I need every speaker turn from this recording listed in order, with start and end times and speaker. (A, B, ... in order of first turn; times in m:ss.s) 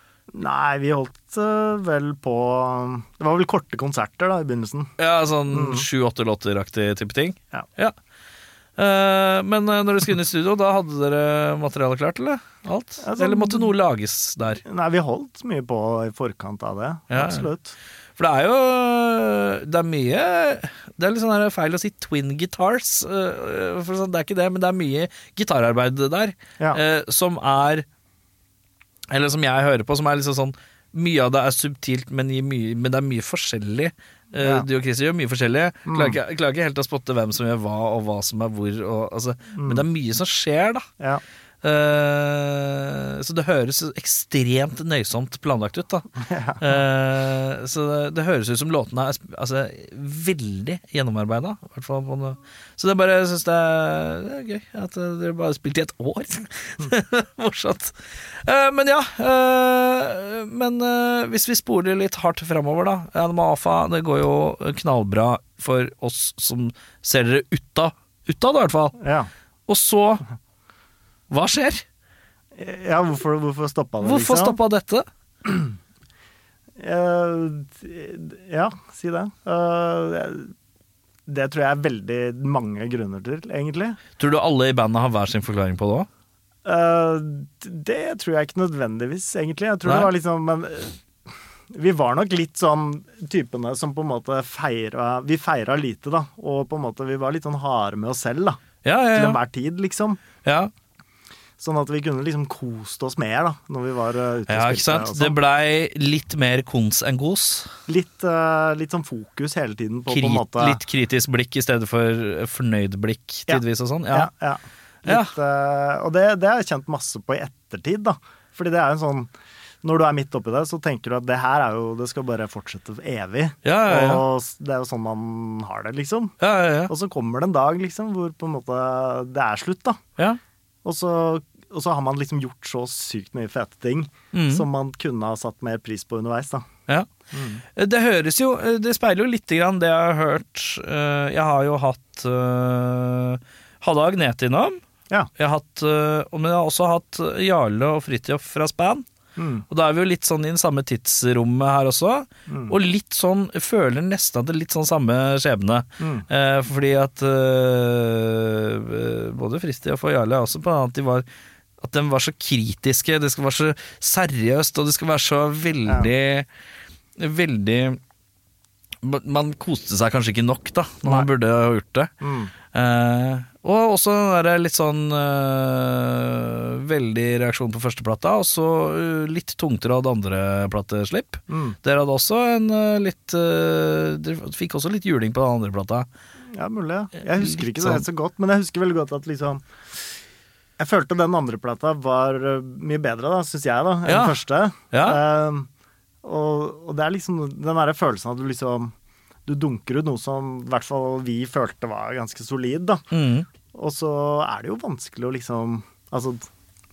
0:00.3-0:04.9 A
0:05.0-0:08.0 B
0:05.5-0:05.9 A
0:08.8-0:14.6 B
0:13.0-0:13.7 A
0:14.6-0:17.8 A
0:17.1-0:17.5 B
0:18.2-0:27.8 B
0:29.1-0:40.8 B
0:34.4-0:34.7 A
0:35.9-0:36.2 A
0:39.6-0:39.8 A
0:41.6-0:46.1 B
0:46.2-0:46.7 A
0:46.6-1:09.0 B
1:09.0-1:09.3 A
1:09.7-1:10.2 B
1:11.3-1:11.8 B
1:12.5-1:14.6 A
1:14.0-1:15.1 B
1:16.8-1:20.5 A
1:21.3-1:24.0 A
1:24.2-1:26.1 B
1:26.6-1:31.0 A
1:29.8-1:30.1 B
1:31.7-1:38.6 A
1:38.8-1:39.4 B
1:39.2-1:40.2 A
1:40.4-1:40.7 B
1:41.6-1:45.4 A
1:44.5-1:47.7 B
1:47.9-1:50.8 A
1:50.1-1:54.3 B
1:53.5-1:59.3 A
1:55.0-1:55.3 B
1:59.8-2:06.4 A
2:03.6-2:04.2 B
2:06.4-2:06.9 B
2:06.9-2:10.0 A
2:10.8-2:16.7 A
2:14.3-2:14.7 B
2:17.3-2:17.6 A
2:17.8-2:24.8 B
2:25.4-2:29.0 B
2:29.4-2:29.6 A
2:29.7-2:41.3 B
2:32.5-2:32.8 A
2:36.0-2:36.3 A
2:41.8-2:46.5 B
2:47.2-2:48.0 B
2:49.0-2:52.1 B
2:51.0-2:51.3 A
2:52.2-2:52.5 A
2:52.7-3:06.1 B
3:01.5-3:01.8 A
3:06.5-3:09.7 A
3:07.4-3:08.0 B
3:10.8-3:15.7 A
3:14.0-3:14.4 B
3:14.9-3:15.2 B
3:16.2-3:18.9 A
3:19.5-3:23.0 A
3:23.1-3:23.5 B
3:23.7-3:26.5 A